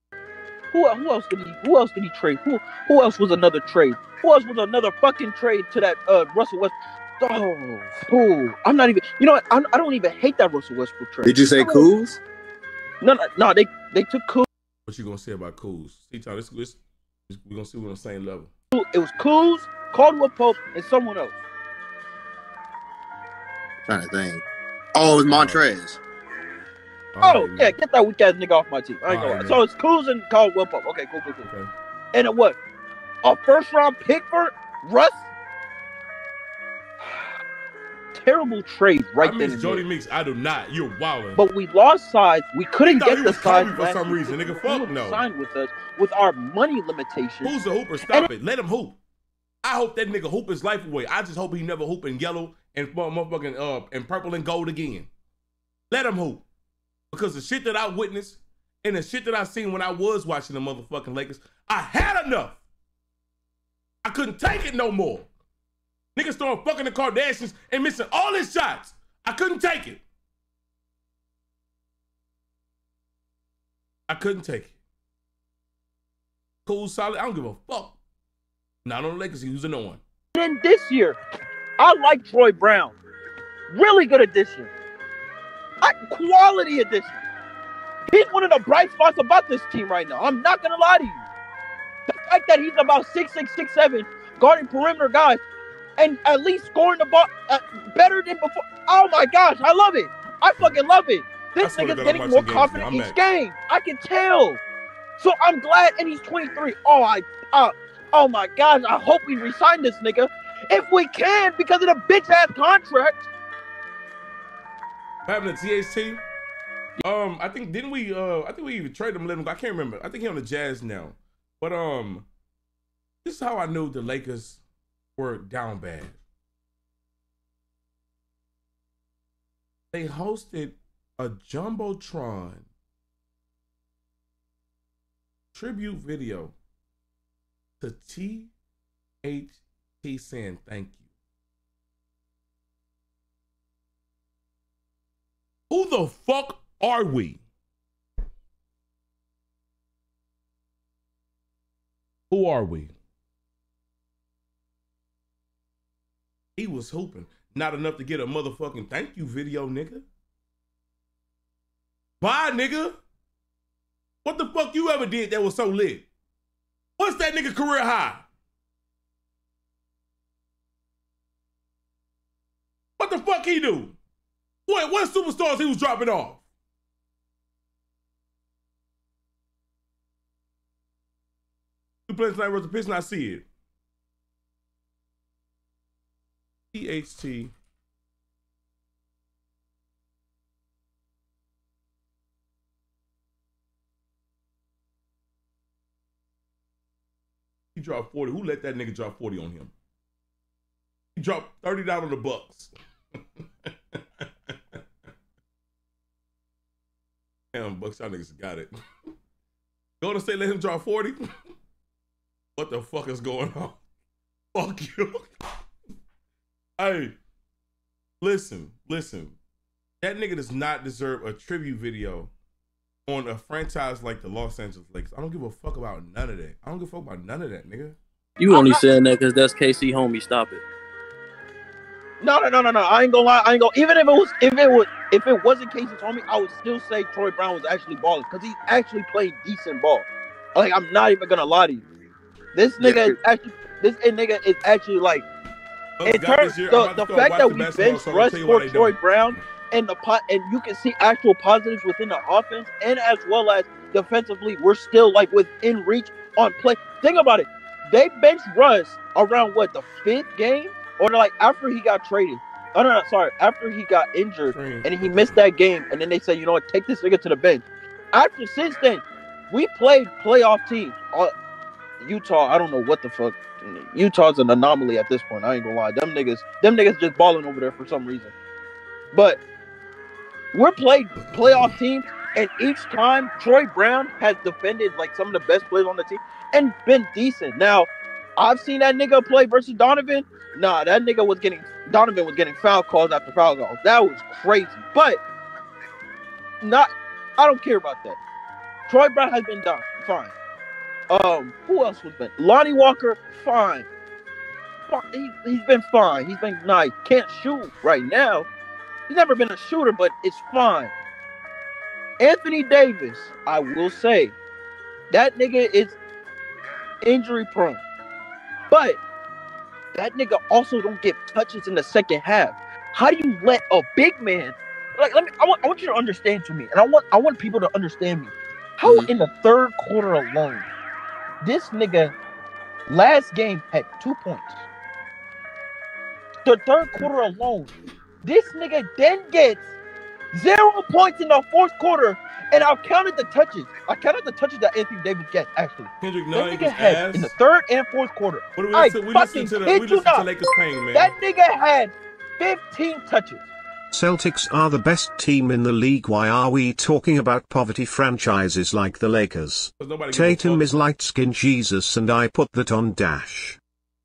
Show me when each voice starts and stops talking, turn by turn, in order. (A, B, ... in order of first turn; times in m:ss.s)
0:00.7-0:11.9 A
0:11.2-0:12.2 B
0:13.0-0:14.4 A
0:14.9-0:18.5 C
0:18.7-0:21.3 A
0:23.8-0:24.4 B
0:24.9-0:26.0 B
0:25.2-0:25.6 C
0:27.2-0:27.8 C
0:27.2-0:31.4 A
0:29.1-0:29.6 C
0:31.4-0:31.7 C
0:32.1-0:32.6 A
0:33.2-0:35.2 A
0:37.0-0:37.3 A
0:38.1-0:39.8 A
0:39.2-0:41.4 C
0:41.4-0:47.5 A
0:42.8-0:45.2 C
0:47.4-0:49.0 C
0:49.6-0:55.1 C
0:55.9-0:56.4 C
0:57.1-1:02.6 C
1:04.0-1:05.3 C
1:06.2-1:10.0 C
1:14.1-1:14.7 C
1:16.6-1:18.0 C
1:18.8-1:20.0 C
1:20.4-1:21.2 A
1:21.8-1:22.9 A
1:23.7-1:24.7 A
1:25.8-1:27.2 A
1:28.1-1:31.2 A
1:32.1-1:35.4 A
1:36.0-1:44.6 A
1:41.6-1:43.2 C
1:45.2-1:53.3 A
1:55.3-1:56.2 C
1:57.0-2:02.3 C
2:03.2-2:04.6 C
2:05.2-2:06.2 C
2:09.9-2:12.7 C
2:15.5-2:16.5 C
2:17.8-2:18.5 C
2:19.2-2:21.0 C
2:25.7-2:27.4 C
2:32.3-2:32.9 C
2:36.6-2:40.0 C
2:42.2-2:43.0 C
2:44.2-2:46.0 C
2:47.0-2:48.2 C
2:53.0-2:53.9 C
2:54.7-2:56.4 C
3:02.1-3:03.4 C
3:06.7-3:07.5 C
3:17.7-3:19.7 C
3:21.2-3:22.7 C
3:23.7-3:24.0 C
3:27.5-3:28.7 C
3:30.0-3:31.2 C
3:32.6-3:33.8 C
3:34.5-3:35.3 C
3:36.8-3:37.1 C
3:38.2-3:39.4 C
3:40.0-3:42.3 C
3:43.1-3:48.0 C
3:48.4-3:50.6 D
3:48.5-3:48.8 A
3:52.2-4:01.8 A
4:02.5-4:05.2 A
4:06.0-4:09.0 C
4:06.0-4:31.3 A
4:24.5-4:25.4 C
4:32.0-4:38.3 A
4:39.1-4:39.4 A
4:40.5-4:55.2 A
4:56.6-4:58.2 A
4:58.9-5:00.3 A
5:01.1-5:03.8 A
5:04.9-5:08.5 A
5:09.1-5:10.9 A
5:12.2-5:14.3 A
5:15.1-5:16.0 A
5:17.0-5:17.8 A
5:18.7-5:19.0 A
5:19.9-5:30.7 A
5:31.4-5:32.1 A
5:32.9-5:34.6 A
5:36.4-5:37.7 A
5:38.2-5:39.6 A
5:40.3-5:50.3 A
5:46.0-5:47.3 C
5:48.5-5:51.1 C
5:50.9-5:53.4 A
5:53.9-6:03.6 E
5:59.8-6:00.7 C